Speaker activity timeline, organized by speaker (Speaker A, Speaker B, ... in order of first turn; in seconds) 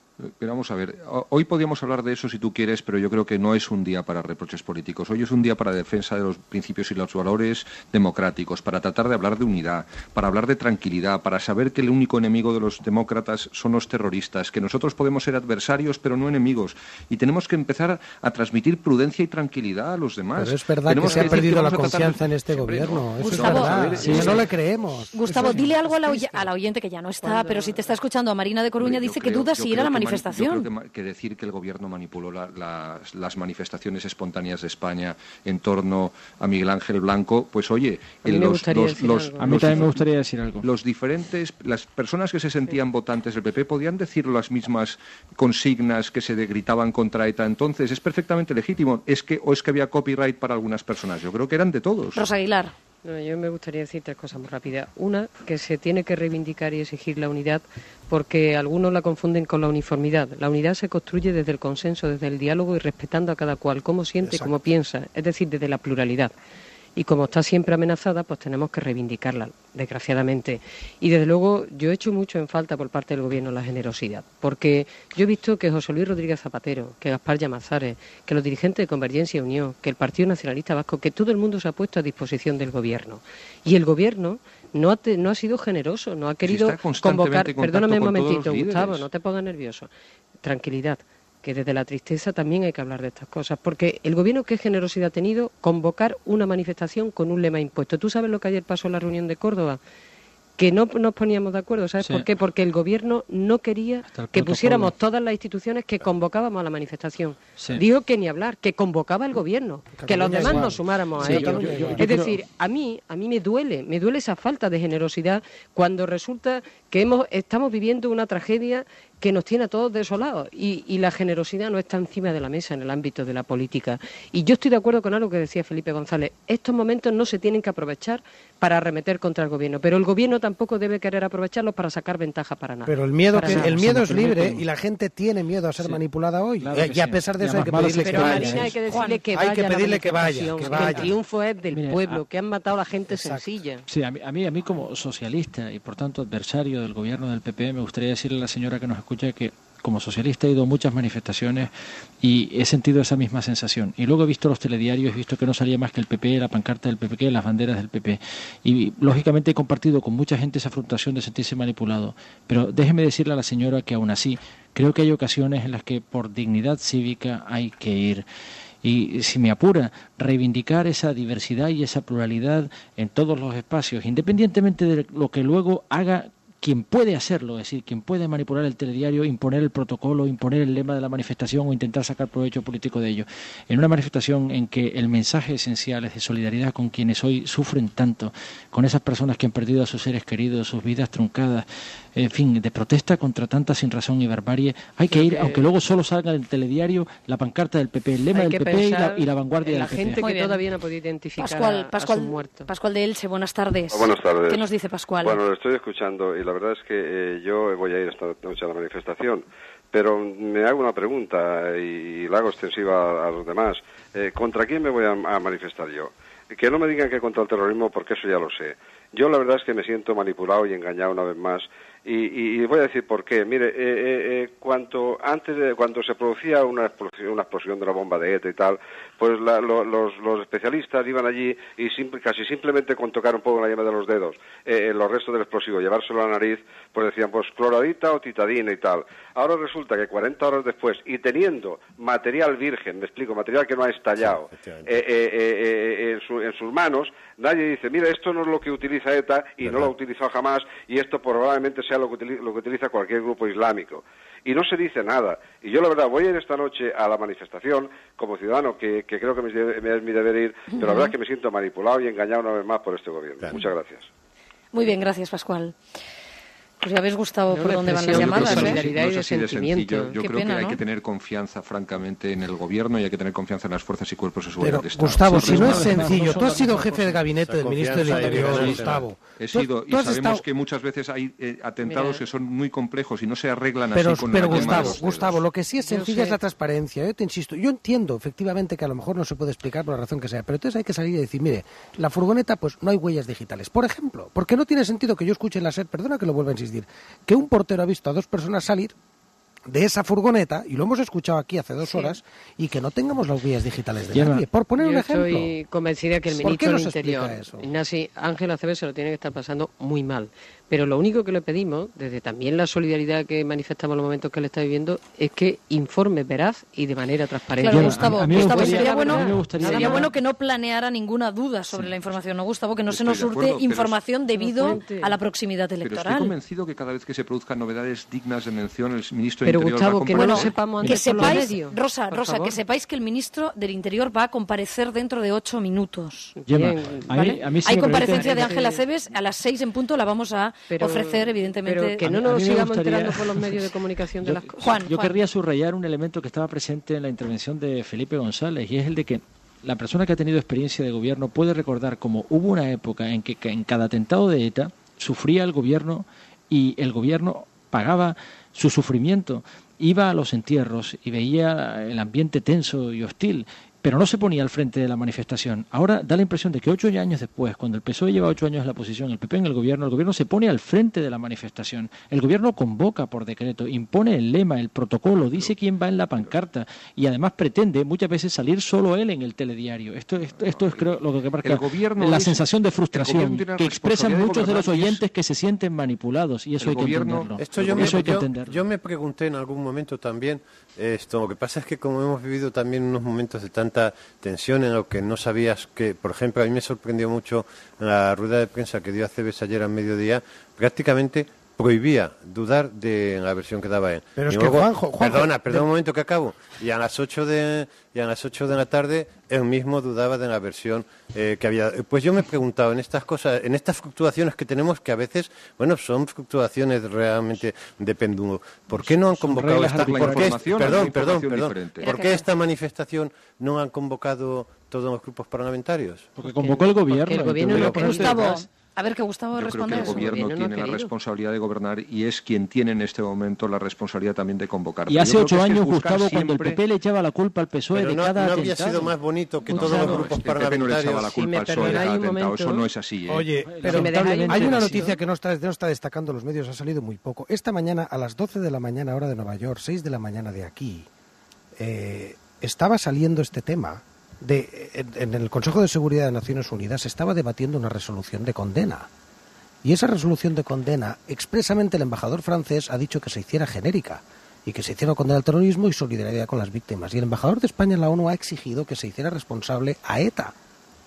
Speaker A: 0.2-24.6, 28.8-40.0, 40.6-52.2, 86.4-89.1, 268.1-276.2, 278.5-278.8, 279.4-285.4, 322.9-324.0, 325.8-330.6, 380.2-385.0, 386.6-388.2, 419.3-421.9, 429.4-436.6, 439.5-443.3
Speaker B: 20.3-26.0, 64.2-64.5, 109.9-112.2, 132.8-138.7, 139.3-141.2, 143.1-143.4, 274.6-280.4, 283.9-298.9, 299.7-305.5, 306.3-307.7, 404.1-405.6, 443.1-450.9, 451.6-458.9, 459.6-470.3
Speaker C: 23.2-24.4, 25.1-30.6, 52.1-52.7, 138.9-139.2, 200.2-200.6, 201.4-205.4, 260.7-261.1, 264.7-265.8, 266.8-268.8, 270.1-270.8, 317.6-326.3, 330.1-336.3, 337.1-342.1, 344.6-345.1, 421.8-422.2, 427.6-430.2
Speaker D: 27.2-28.0, 38.2-39.9, 53.0-66.3, 67.0-89.9, 90.4-99.8, 100.6-133.8, 138.0-143.8, 195.1-195.7, 198.3-202.7, 267.5-270.1, 281.8-282.2, 284.6-284.9, 285.8-286.4, 301.8-302.2, 304.8-320.1, 324.3-325.2, 329.4-332.6, 336.4-338.9, 340.7-344.9, 426.2-428.4, 429.7-430.9, 439.6-440.0, 441.1-442.7, 443.6-445.0
Speaker E: 39.4-40.7, 102.0-102.3, 104.1-104.9, 107.6-107.8, 110.5-112.4, 133.4-134.6, 136.6-138.8, 140.6-141.1, 141.7-142.2, 143.9-168.2, 168.8-200.2, 275.3-277.1, 304.1-304.4, 317.6-320.1, 330.8-331.5, 336.5-338.4, 342.0-388.6, 418.8-420.3, 426.2-428.1, 434.9-438.9, 439.5-440.1, 443.4-445.0
Speaker F: 203.9-204.7, 205.2-264.1
Speaker G: 244.2-245.0, 249.6-249.9, 277.4-279.0, 387.4-426.1, 427.5-428.1, 437.7-441.1